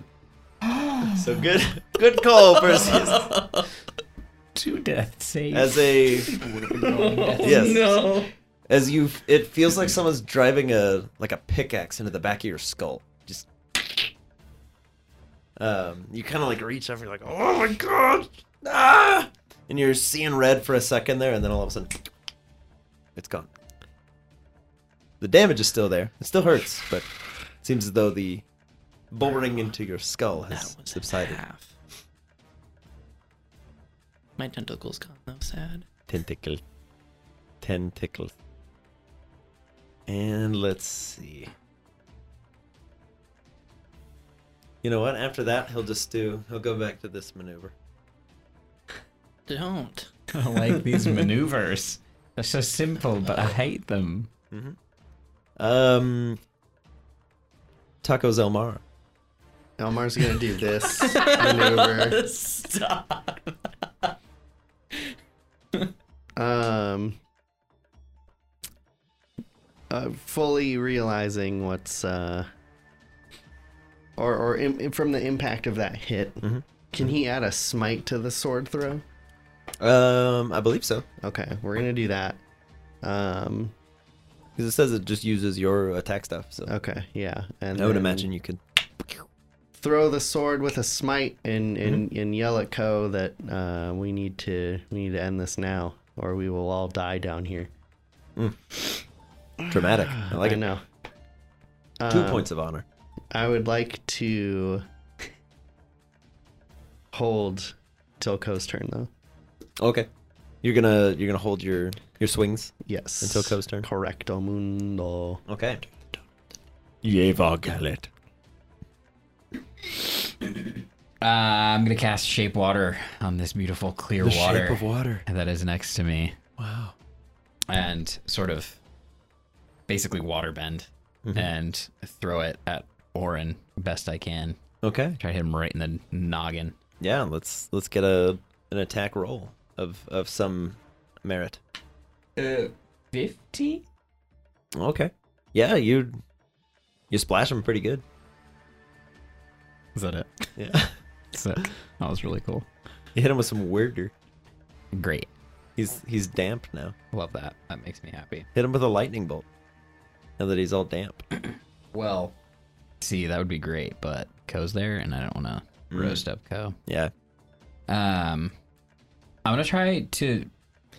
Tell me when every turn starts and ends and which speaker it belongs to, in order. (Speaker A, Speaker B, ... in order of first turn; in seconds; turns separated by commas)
Speaker A: 0.6-1.4, Speaker B: 1.1-3.3, Speaker C: 2.6-3.7, Speaker A: 4.5-8.1, Speaker B: 5.5-6.3, Speaker C: 6.3-8.3, Speaker B: 7.4-7.9, Speaker B: 8.7-14.0, Speaker B: 15.6-22.0, Speaker B: 23.1-23.5, Speaker B: 25.2-28.4, Speaker B: 29.1-31.4, Speaker C: 30.5-31.7, Speaker C: 34.4-35.9, Speaker B: 36.1-36.6, Speaker B: 37.6-38.3, Speaker B: 40.1-41.5, Speaker B: 44.8-47.7, Speaker C: 49.5-51.3, Speaker A: 50.3-54.3, Speaker B: 54.5-54.8, Speaker B: 55.6-56.4, Speaker B: 58.0-58.8, Speaker D: 59.8-62.2, Speaker C: 60.8-63.7, Speaker D: 66.3-67.2, Speaker D: 69.9-72.5, Speaker D: 74.2-79.0, Speaker B: 79.8-81.0, Speaker D: 81.2-82.4, Speaker D: 83.0-83.7, Speaker B: 84.6-86.7, Speaker D: 86.7-88.3, Speaker B: 87.7-88.6, Speaker D: 89.7-97.7, Speaker B: 98.4-98.7, Speaker D: 99.6-100.8, Speaker B: 99.7-100.6, Speaker D: 102.0-102.5, Speaker B: 102.1-102.8, Speaker D: 103.3-104.8, Speaker D: 107.1-109.1, Speaker B: 109.8-110.1, Speaker B: 110.6-113.9, Speaker D: 112.8-115.4, Speaker B: 115.5-115.9, Speaker B: 117.0-118.1, Speaker A: 121.2-126.4, Speaker B: 124.2-125.2, Speaker B: 126.6-126.9, Speaker A: 127.7-128.8, Speaker A: 129.9-134.6, Speaker B: 131.2-131.5, Speaker B: 134.8-135.2, Speaker A: 135.2-136.8, Speaker B: 137.0-141.6, Speaker A: 142.4-143.8, Speaker B: 144.8-146.2, Speaker B: 147.1-148.0, Speaker A: 149.9-150.5, Speaker B: 150.6-150.9, Speaker A: 151.3-152.7, Speaker B: 153.1-154.1, Speaker A: 154.9-155.3, Speaker B: 155.8-156.9, Speaker A: 157.1-158.5, Speaker B: 158.5-159.4, Speaker B: 160.4-161.2, Speaker A: 161.9-162.3, Speaker A: 163.0-166.8, Speaker B: 165.9-166.2, Speaker B: 166.8-167.1, Speaker A: 167.9-168.5, Speaker A: 169.4-170.5